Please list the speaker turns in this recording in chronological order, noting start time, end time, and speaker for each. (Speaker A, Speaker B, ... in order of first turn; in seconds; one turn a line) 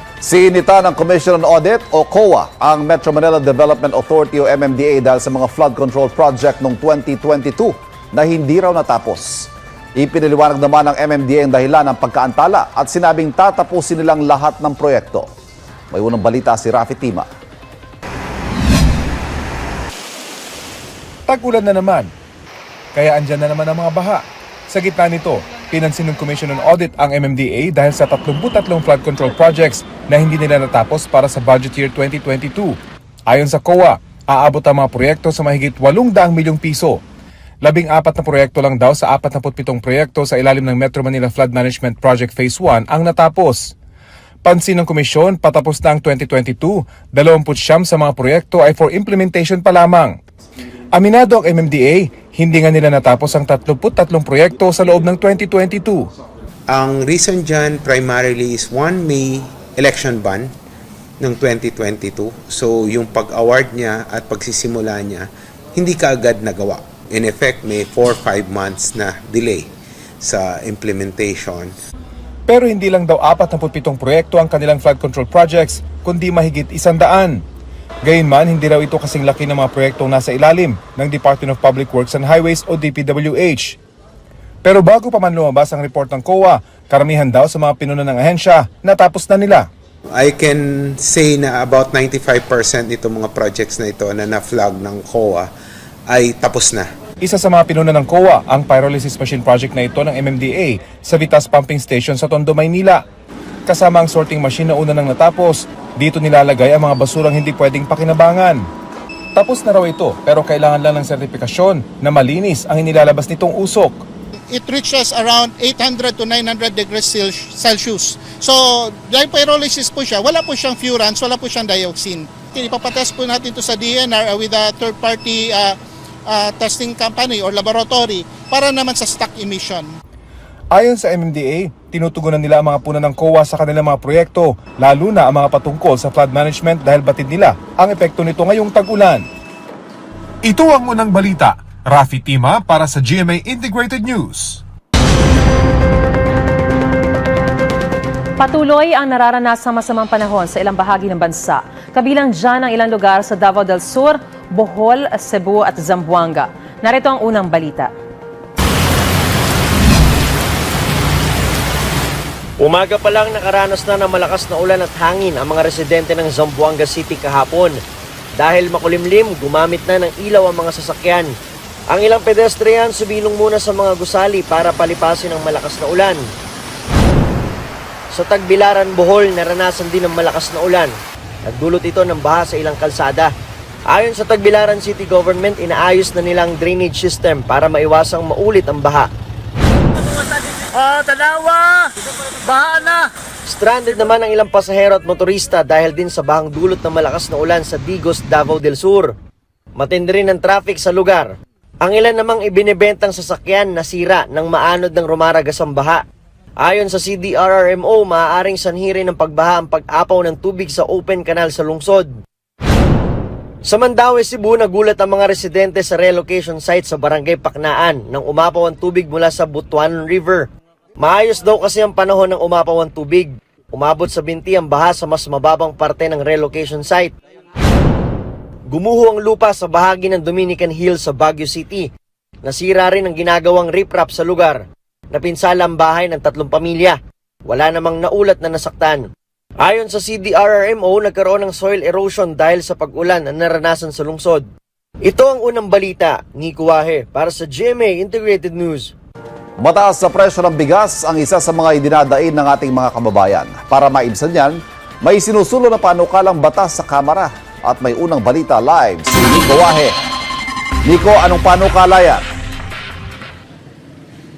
Speaker A: 0.2-15.3
Speaker A: 15.9-17.2
Speaker B: 21.3-22.1
Speaker B: 22.9-32.8
Speaker B: 33.3-37.0
Speaker B: 37.6-43.7
Speaker B: 44.4-50.2
Speaker B: 50.9-56.1
Speaker C: 56.7-60.5
Speaker C: 61.2-69.7
Speaker C: 70.2-71.7
Speaker B: 72.5-77.4
Speaker B: 78.0-83.8
Speaker B: 84.6-89.7
Speaker C: 90.2-95.5
Speaker C: 96.1-96.9
Speaker B: 97.2-103.0
Speaker B: 103.7-108.6
Speaker B: 109.3-114.0
Speaker D: 114.5-129.9
Speaker B: 130.7-139.2
Speaker B: 140.4-144.6
Speaker E: 148.4-157.9
Speaker F: 162.6-167.8
Speaker F: 168.4-171.3
Speaker F: 171.9-176.2
Speaker F: 178.1-180.9
Speaker F: 181.5-183.3
Speaker F: 183.9-189.1
Speaker F: 193.5-199.1
Speaker F: 199.8-201.3
Speaker F: 201.8-206.0
Speaker F: 206.6-212.1
Speaker F: 213.7-220.4
Speaker F: 221.0-227.1
Speaker F: 228.7-231.9
Speaker F: 232.4-234.6
Speaker F: 235.1-239.0
Speaker F: 239.6-244.5
Speaker F: 245.0-248.9
Speaker A: 249.6-259.9
Speaker A: 260.8-262.2